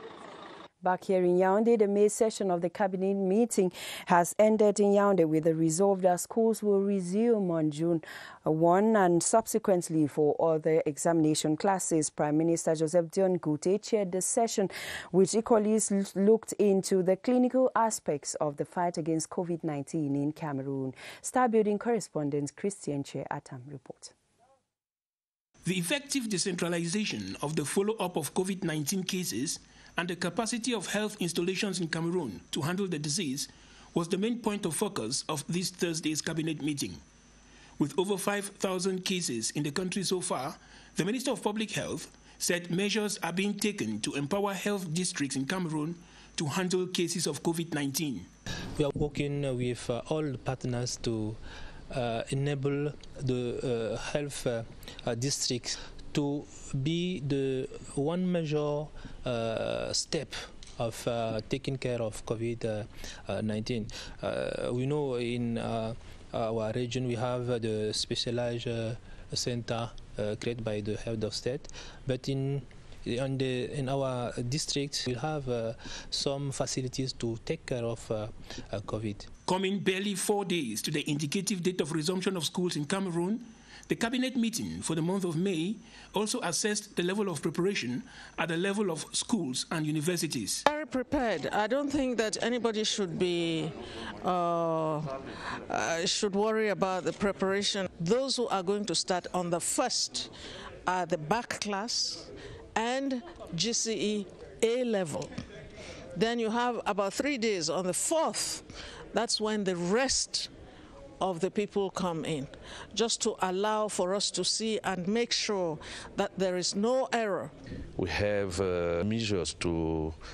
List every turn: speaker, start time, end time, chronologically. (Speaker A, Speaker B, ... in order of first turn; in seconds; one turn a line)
Speaker A: 0.8-24.1
Speaker B: 25.6-37.0
Speaker B: 37.8-48.3
Speaker C: 48.8-51.4
Speaker C: 51.9-79.3
Speaker B: 79.5-90.6
Speaker D: 90.7-100.3
Speaker D: 100.8-105.3
Speaker D: 106.1-110.5
Speaker D: 111.2-117.5
Speaker E: 118.0-120.2